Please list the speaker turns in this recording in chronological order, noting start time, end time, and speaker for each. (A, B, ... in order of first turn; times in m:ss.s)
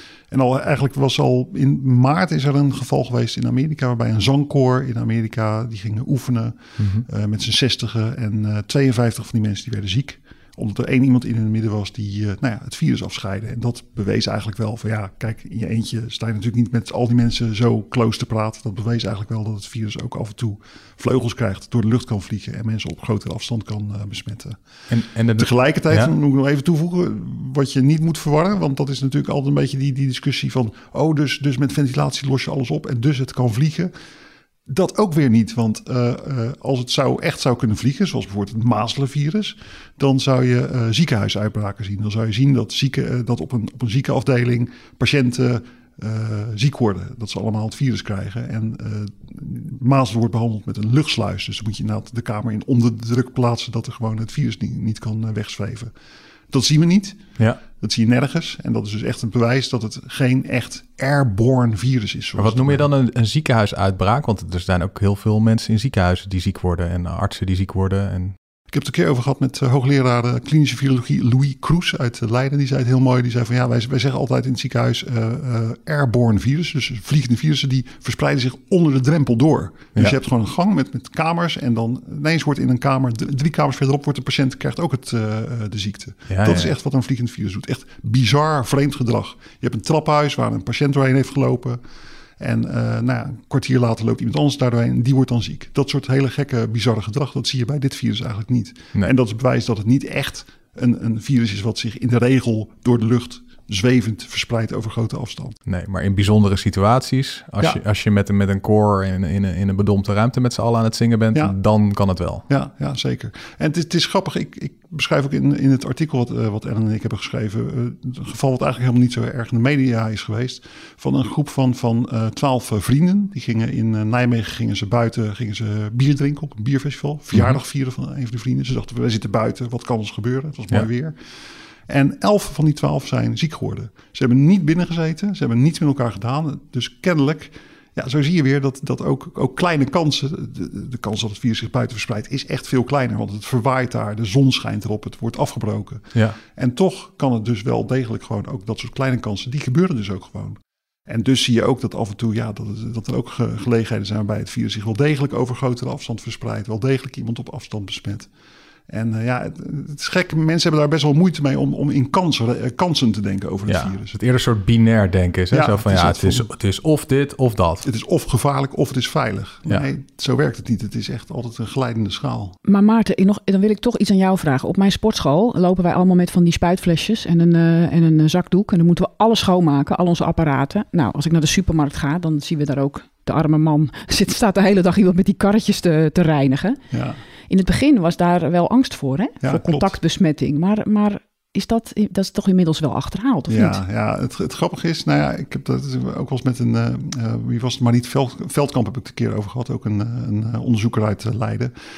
0:00.3-0:24.6 A
0:06.8-0:07.0 B
0:24.9-0:26.1 B
0:25.4-0:33.9 A
0:34.7-0:55.9 A
0:56.5-0:57.2 A
0:57.8-1:02.8 A
1:02.4-1:08.3 B
1:08.7-1:31.8 A
1:26.3-1:26.7 B
1:32.4-1:45.6 A
1:45.7-1:52.4 B
1:52.5-2:11.2 A
2:11.9-2:38.3 A
2:38.9-2:44.1 A
2:43.7-2:47.8 B
2:45.5-2:46.5 A
2:47.8-2:52.6 A
2:52.6-3:06.8 C
3:06.9-3:07.2 A
3:07.5-3:13.8 C
3:09.4-3:10.0 A
3:13.5-3:21.7 A